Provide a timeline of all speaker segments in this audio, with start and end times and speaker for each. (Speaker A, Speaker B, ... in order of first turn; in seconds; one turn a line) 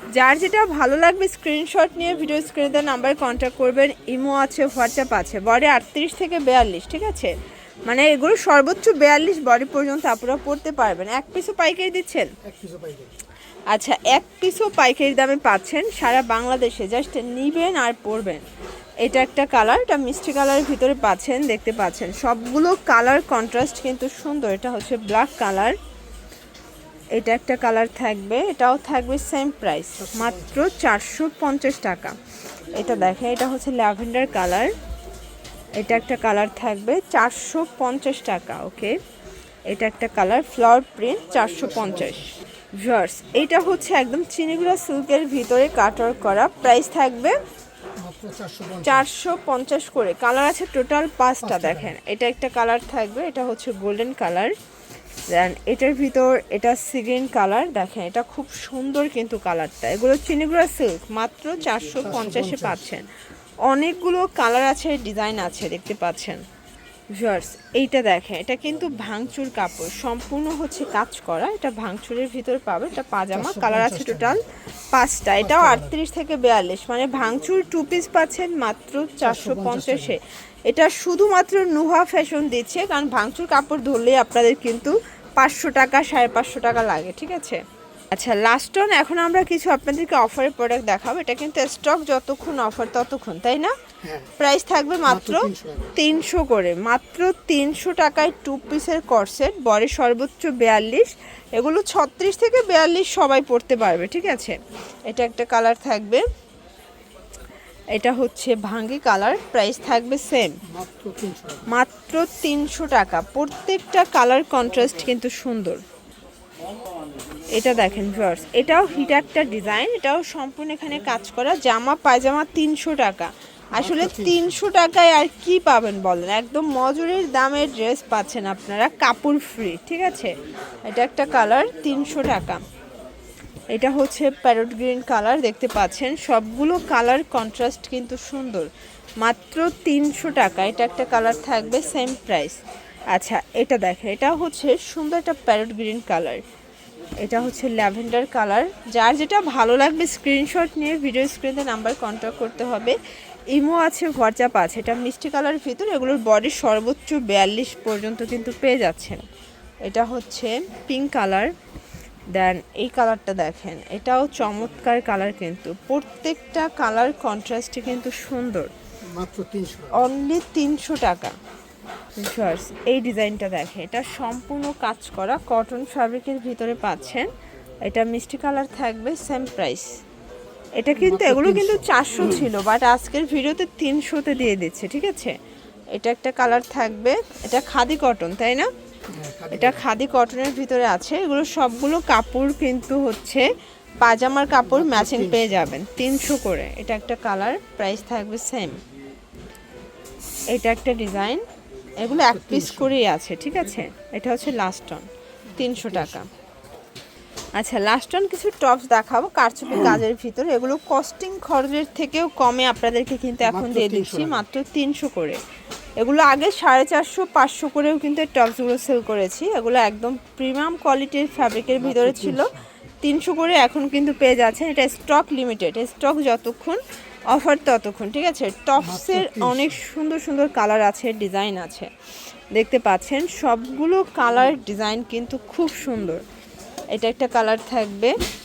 Speaker A: 0.2-7.3
Speaker A: 7.9-12.3
Speaker B: 12.4-13.1
Speaker A: 13.7-18.4
Speaker A: 19.0-25.8
Speaker A: 27.2-32.2
Speaker B: 30.0-30.8
Speaker A: 32.7-34.7
Speaker A: 35.8-39.0
Speaker A: 39.7-47.4
Speaker B: 41.6-42.3
Speaker B: 48.0-49.1
Speaker A: 48.8-54.5
Speaker B: 51.4-52.0
Speaker A: 55.3-63.1
Speaker B: 62.0-62.9
Speaker A: 63.7-66.4
Speaker A: 67.2-93.7
Speaker B: 73.3-74.4
Speaker B: 75.4-76.0
Speaker B: 79.2-80.2
Speaker B: 94.0-94.3
Speaker A: 94.4-106.2
Speaker B: 95.1-96.0
Speaker A: 107.9-110.6
Speaker B: 110.7-111.7
Speaker A: 111.7-115.8
Speaker A: 117.5-130.3
Speaker B: 123.8-124.6
Speaker A: 130.8-132.6
Speaker A: 133.7-138.7
Speaker A: 139.2-142.6
Speaker A: 143.1-146.4
Speaker A: 147.2-153.0
Speaker A: 153.5-159.2
Speaker A: 159.8-161.5
Speaker A: 162.3-168.7
Speaker B: 169.1-170.1
Speaker A: 169.9-171.3
Speaker A: 172.2-177.3
Speaker A: 177.8-179.9
Speaker A: 180.8-185.4
Speaker B: 181.0-182.3
Speaker A: 185.9-188.7
Speaker B: 189.1-189.9
Speaker A: 189.5-193.5
Speaker A: 194.0-198.8
Speaker B: 194.7-195.7
Speaker A: 200.5-201.4
Speaker A: 202.0-206.3
Speaker B: 202.1-203.0
Speaker B: 205.5-206.2
Speaker A: 207.6-215.4
Speaker B: 213.4-214.4
Speaker A: 216.0-231.9
Speaker B: 221.8-222.6
Speaker B: 228.8-229.8
Speaker A: 232.5-236.2
Speaker A: 236.9-238.1